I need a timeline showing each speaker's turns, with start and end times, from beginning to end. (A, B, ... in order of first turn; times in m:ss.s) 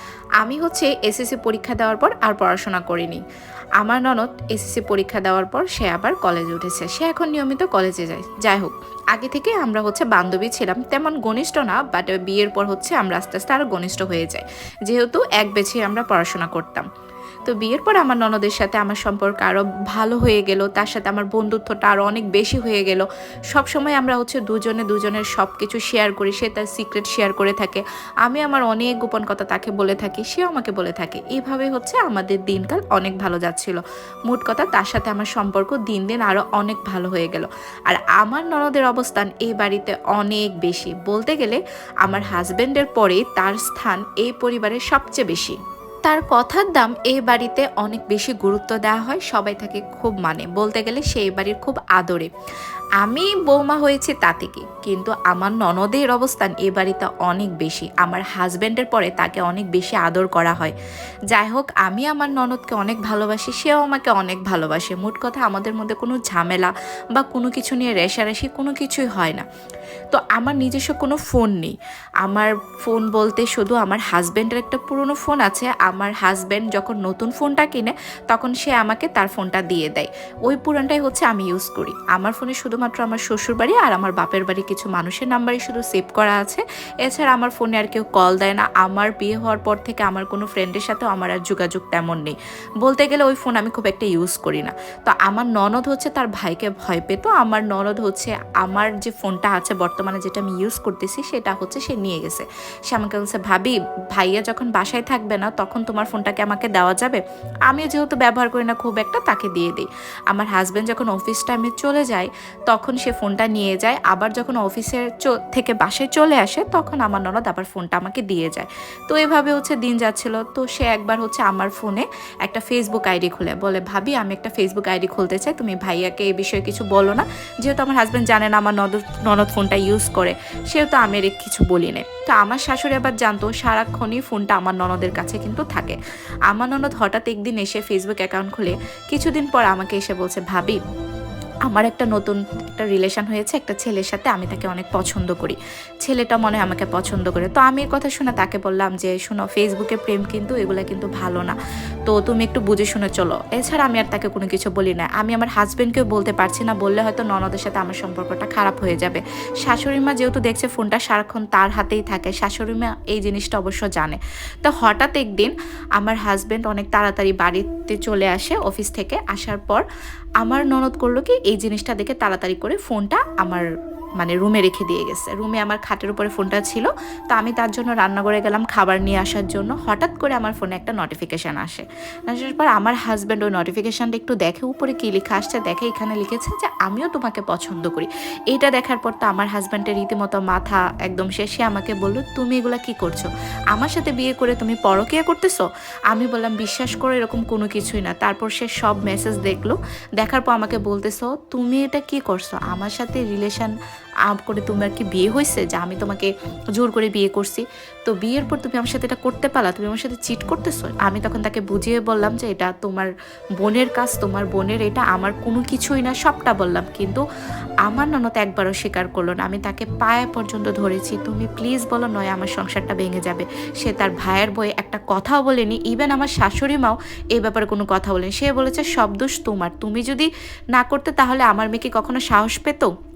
0:00.4-0:03.2 A
0:03.8-0:16.9 A
0:17.5-0:52.3 A
0:53.0-1:00.7 A
1:01.3-1:09.4 A
1:10.1-2:16.0 A
2:16.5-2:20.8 A
2:21.7-2:49.8 A
2:50.4-2:53.6 A
2:54.2-3:23.7 A
3:24.3-3:37.2 A
3:37.8-3:52.9 A